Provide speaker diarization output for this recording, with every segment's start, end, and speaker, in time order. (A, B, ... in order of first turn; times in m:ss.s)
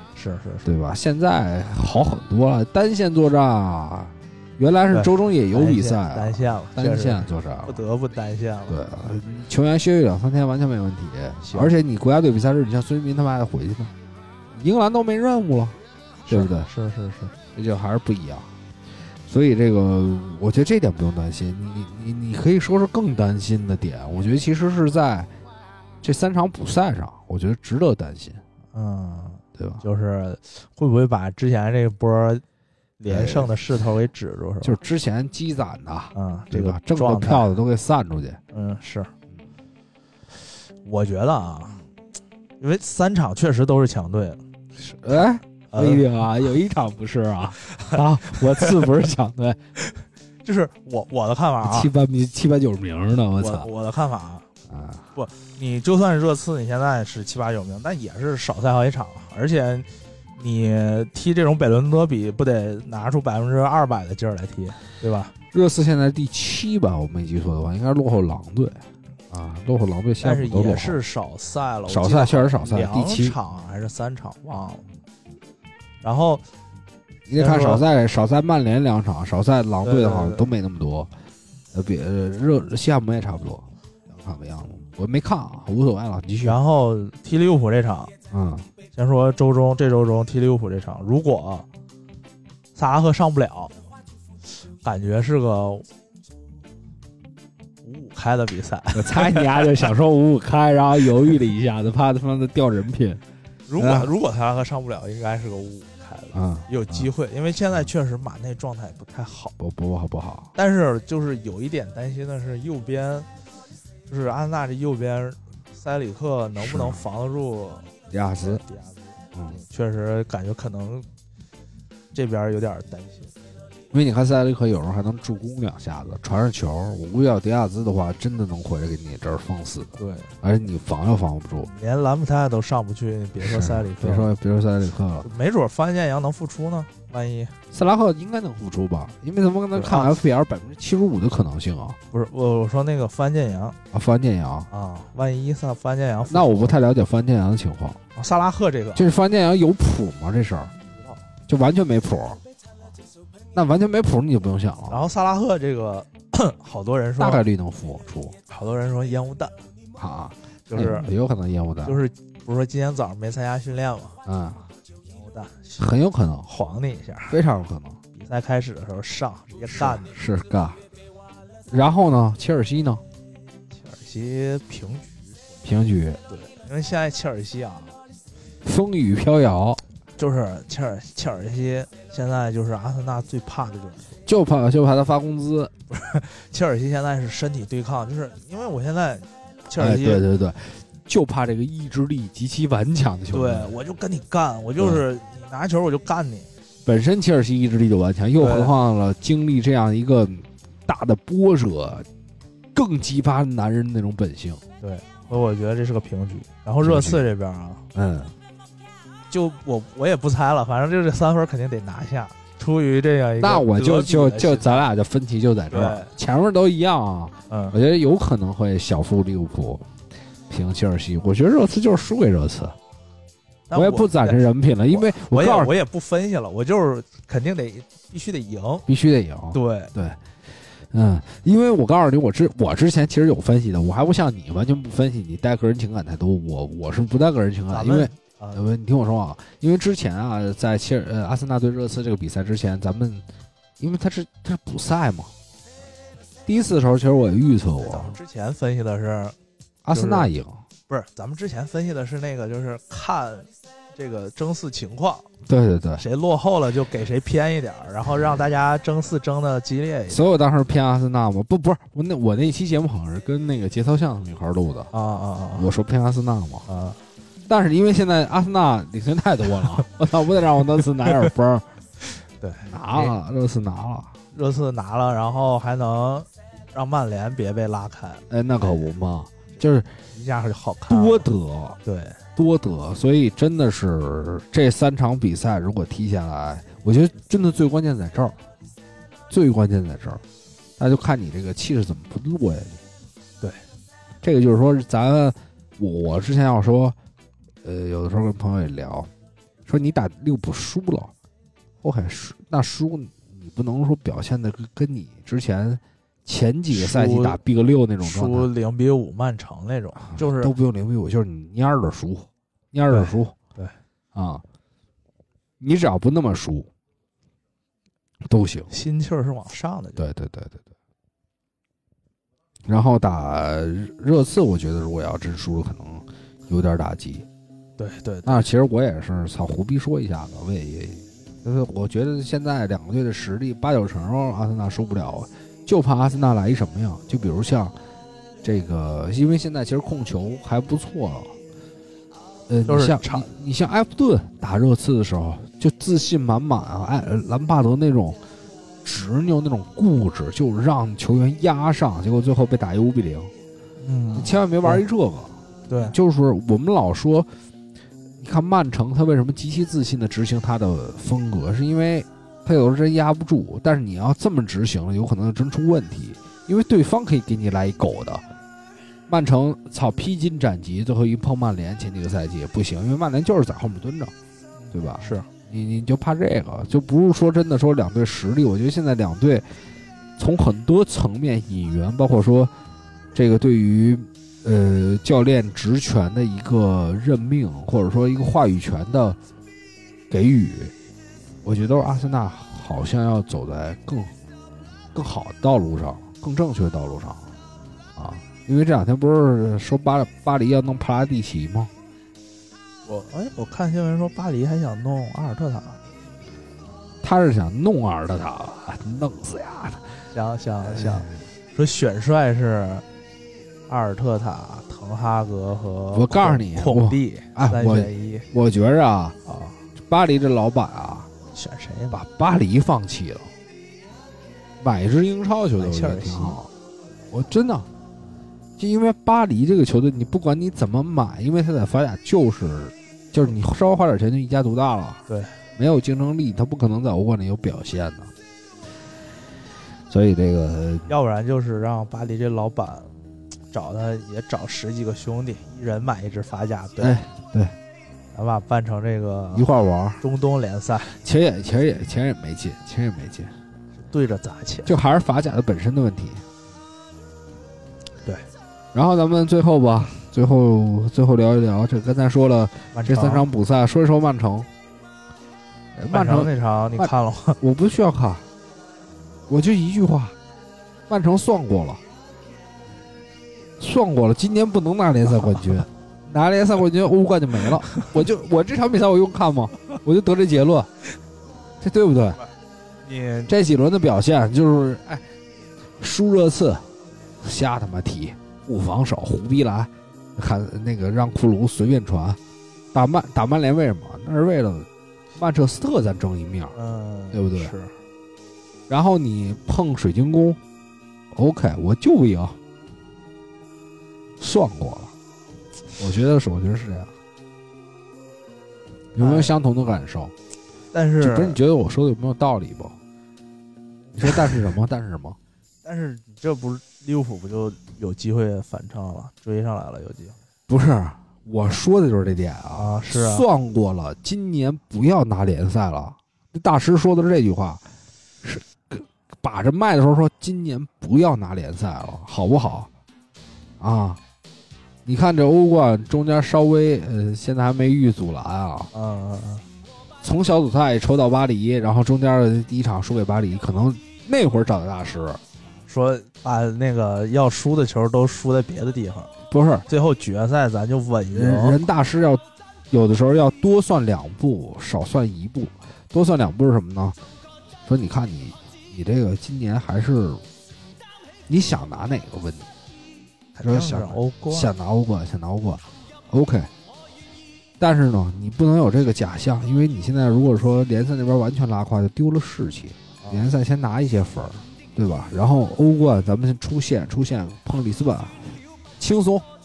0:00.1-0:00.7 A
0:00.6-0:07.8 B
0:04.9-0:08.8 A
0:08.7-0:13.9 B
0:11.4-0:11.7 A
0:14.5-0:15.8 B
0:16.2-0:17.3 A
0:16.3-0:16.7 B
0:17.5-0:18.5 B
0:19.3-0:25.3 B
0:26.0-0:28.4 B
0:28.7-0:32.4 A
0:29.6-0:29.8 B
0:33.0-0:34.8 A
0:33.0-0:33.5 B
0:34.6-0:38.4 B
0:36.2-0:37.5 A
0:38.5-0:39.1 A
0:40.8-0:41.8 A
0:42.6-0:44.4 A
0:44.8-0:49.6 B
0:45.1-0:46.1 A
0:47.8-0:48.8 A
0:50.4-0:51.9 A
0:51.6-0:53.7 B
0:53.4-0:54.4 A
0:54.7-0:55.1 B
0:55.2-1:05.3 A
1:05.5-1:11.0 B
1:10.2-1:14.9 A
1:11.9-1:13.4 B
1:16.0-1:16.4 A
1:17.3-1:21.1 B
1:17.4-1:17.8 A
1:19.8-1:20.5 A
1:21.7-1:26.6 B
1:26.4-1:28.1 A
1:28.3-1:28.7 B
1:29.0-1:31.7 A
1:32.8-1:33.7 A
1:34.8-1:35.9 A
1:37.8-1:39.9 A
1:39.0-1:43.2 B
1:43.7-1:49.5 A
1:43.8-1:44.1 B
1:46.3-1:47.1 B
1:49.6-1:50.5 B
1:50.6-1:53.3 A
1:54.1-2:01.1 A
1:56.6-1:57.0 B
1:58.1-1:58.6 B
2:02.1-2:03.5 A
2:03.9-2:11.7 B
2:10.0-2:10.3 A
2:11.6-2:14.3 A
2:13.4-2:15.3 B
2:15.2-2:17.6 A
2:17.7-2:22.0 B
2:19.7-2:20.1 A
2:22.1-2:23.8 A
2:23.9-2:24.7 B
2:24.7-2:26.8 A
2:26.3-2:28.0 B
2:28.2-2:29.1 A
2:29.0-2:30.7 B
2:30.9-2:31.2 A
2:31.5-2:32.4 B
2:33.5-2:35.0 B
2:34.9-2:37.4 A
2:37.2-2:38.4 B
2:38.5-2:39.6 A
2:40.0-2:42.0 B
2:40.7-2:41.1 A
2:41.8-2:44.2 A
2:44.3-2:44.6 B
2:45.1-2:45.9 A
2:45.8-2:46.5 B
2:46.5-2:47.4 A
2:47.3-2:48.0 B
2:48.1-2:50.2 A
2:49.7-2:50.8 B
2:51.7-2:53.0 B
2:53.7-2:55.3 A
2:55.6-2:56.2 B
2:56.3-2:58.0 A
2:58.6-2:59.8 B
3:00.2-3:04.1 A
3:04.3-3:05.7 B
3:05.9-3:10.2 A
3:09.8-3:13.7 B
3:13.3-3:16.5 A
3:16.8-3:22.1 B
3:18.4-3:18.7 A
3:22.7-3:24.6 B
3:24.8-3:27.8 A
3:26.8-3:27.3 B
3:27.9-3:28.3 B
3:29.3-3:34.9 A
3:33.4-3:39.9 B
3:35.7-3:36.1 A
3:37.5-3:37.8 A
3:40.5-3:42.8 B
3:43.7-3:48.9 A
3:43.7-3:45.7 B
3:48.9-3:50.2 B
3:49.5-3:49.9 A
3:50.8-4:03.2 B
3:57.7-3:58.6 A
4:03.8-4:05.3 B
4:06.5-4:08.2 B
4:07.8-4:09.4 A
4:09.8-4:10.6 B
4:09.9-4:10.3 A
4:10.9-4:15.3 A
4:15.5-4:16.0 B
4:16.0-4:20.2 A
4:20.1-4:24.9 B
4:24.9-4:25.7 A
4:25.6-4:26.7 B
4:26.7-4:27.0 A
4:27.5-4:31.7 B
4:32.4-4:33.2 A
4:32.6-4:34.2 B
4:34.3-4:38.9 A
4:38.3-4:39.9 B
4:39.5-4:41.3 A
4:40.9-4:41.8 B
4:41.8-4:42.2 A
4:42.4-4:48.4 B
4:49.3-4:50.2 B
4:50.8-4:52.8 B
4:54.2-4:57.0 B
4:57.6-4:59.1 B
4:59.7-5:01.1 B
5:01.8-5:08.5 B
5:06.7-5:07.4 A
5:08.0-5:10.5 A
5:10.1-5:13.4 B
5:12.9-5:13.8 A
5:14.1-5:14.4 B
5:15.6-5:16.7 B
5:18.2-5:18.7 B
5:18.7-5:20.1 A
5:20.0-5:20.6 B
5:22.7-5:27.3 B
5:27.8-5:28.5 A
5:28.2-5:37.8 B
5:38.4-5:41.4 B
5:42.5-5:48.2 B
5:42.7-5:43.3 A
5:48.8-5:53.3 B
5:53.8-5:54.8 A
5:54.2-5:55.4 B
5:55.7-5:56.0 A
5:55.9-5:57.3 B
5:58.2-6:08.2 B
6:09.1-6:14.1 B
6:14.6-6:15.3 A
6:14.7-6:19.5 B
6:20.2-6:22.5 B
6:23.1-6:29.2 B
6:30.1-6:30.7 B
6:31.4-6:34.1 B
6:34.9-6:37.3 B
6:38.0-6:41.7 B
6:42.8-6:45.8 A
6:47.0-6:49.9 B
6:50.1-6:52.8 A
6:50.8-6:51.0 B
6:53.7-6:58.3 A
6:55.9-6:59.2 B
6:59.3-6:59.6 A
6:59.8-7:01.1 B
7:01.3-7:02.0 A
7:01.9-7:03.3 B
7:04.6-7:06.5 B
7:05.6-7:06.4 A
7:07.1-7:07.7 B
7:08.6-7:15.0 B
7:15.1-7:15.4 A
7:15.6-7:18.1 B
7:19.9-7:20.9 B
7:20.9-7:22.9 A
7:23.5-7:27.0 A
7:26.8-7:27.6 B
7:28.1-7:29.5 A
7:29.3-7:30.0 B
7:30.0-7:31.0 A
7:31.0-7:33.3 B
7:33.8-7:34.7 A
7:34.7-7:36.2 B
7:38.7-7:44.5 B
7:42.7-7:43.3 A
7:45.8-7:48.2 B
7:45.9-7:47.4 A
7:49.3-7:50.2 B
7:50.9-7:51.8 B
7:53.6-8:00.7 B
8:01.6-8:02.2 B
8:02.8-8:03.3 A
8:03.3-8:05.0 B
8:05.8-8:06.7 B
8:07.2-8:12.2 B
8:12.7-8:16.6 B
8:16.5-8:17.8 A
8:17.1-8:17.5 B
8:18.7-8:20.4 B
8:21.1-8:22.4 B
8:24.2-8:24.9 B
8:25.8-8:26.9 B
8:28.9-8:30.1 B
8:29.0-8:29.3 A
8:30.7-8:31.4 A
8:31.0-8:32.8 B
8:34.0-8:35.2 B
8:35.6-8:40.2 A
8:40.5-8:47.6 B
8:42.6-8:43.3 A
8:48.2-8:52.7 B
8:53.6-8:54.0 B
8:54.8-8:58.7 B
8:58.7-8:59.4 A
9:00.0-9:05.2 B
9:05.7-9:09.1 A
9:09.3-9:09.7 B
9:09.7-9:11.6 A
9:11.1-9:17.0 B
9:17.6-9:20.2 B
9:21.3-9:22.5 B
9:23.4-9:24.5 A
9:23.4-9:26.5 B
9:27.6-9:39.3 B
9:33.0-9:33.3 A